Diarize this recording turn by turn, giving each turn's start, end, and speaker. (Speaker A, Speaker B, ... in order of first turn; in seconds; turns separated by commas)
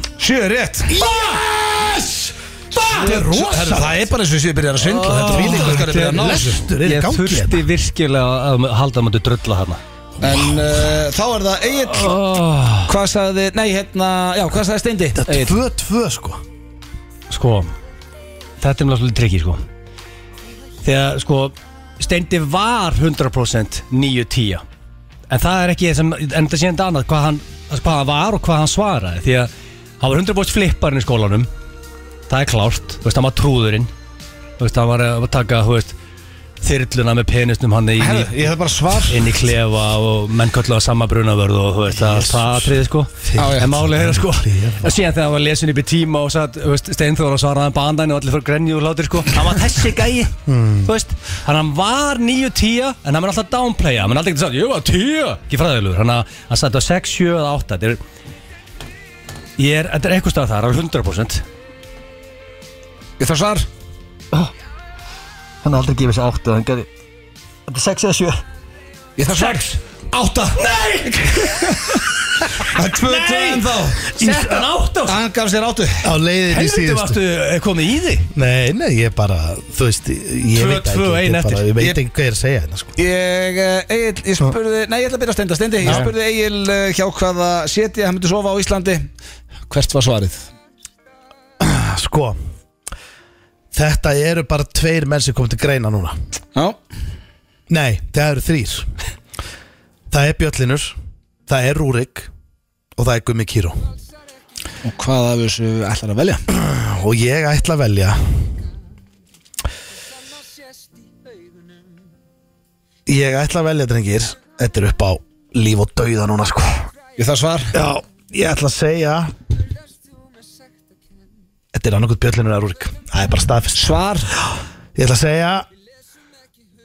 Speaker A: 0.2-1.1, Speaker B: 0.9-4.0, Speaker A: 2.8-6.6, Speaker C: 4.8-9.8, Speaker B: 5.2-7.6, Speaker A: 10.2-12.1, Speaker B: 10.3-10.6, Speaker C: 11.9-12.9, Speaker A: 12.8-15.6, Speaker B: 15.2-16.4, Speaker C: 17.3-17.7, Speaker C: 18.6-19.6, Speaker C: 20.8-24.6, Speaker C: 25.3-31.5, Speaker C: 32.3-33.9, Speaker C: 34.6-36.0, Speaker C: 36.6-38.4, Speaker A: 38.0-39.3, Speaker C: 39.1-58.0, Speaker B: 41.9-44.9, Speaker A: 43.4-43.7, Speaker B: 50.5-50.9, Speaker C: 59.6-61.4, Speaker A: 63.2-63.7, Speaker C: 65.6-66.9, Speaker C: 67.7-68.4, Speaker A: 69.2-74.0, Speaker C: 69.3-69.6, Speaker C: 70.5-72.0, Speaker C: 72.6-75.2, Speaker B: 74.1-74.7, Speaker A: 75.1-76.1, Speaker B: 76.0-77.2, Speaker C: 76.5-78.3, Speaker B: 78.3-82.9, Speaker C: 80.5-81.7, Speaker A: 83.0-89.1, Speaker B: 85.8-86.1, Speaker A: 89.7-90.5, Speaker B: 91.6-92.3, Speaker B: 93.7-96.2, Speaker B: 97.7-98.9, Speaker B: 100.1-101.0, Speaker B: 101.5-102.3, Speaker B: 103.0-103.8, Speaker A: 104.8-106.4, Speaker B: 106.5-108.2, Speaker B: 113.0-116.9, Speaker A: 117.2-117.7, Speaker B: 117.7-119.3, Speaker B: 121.7-125.7, Speaker A: 123.8-124.3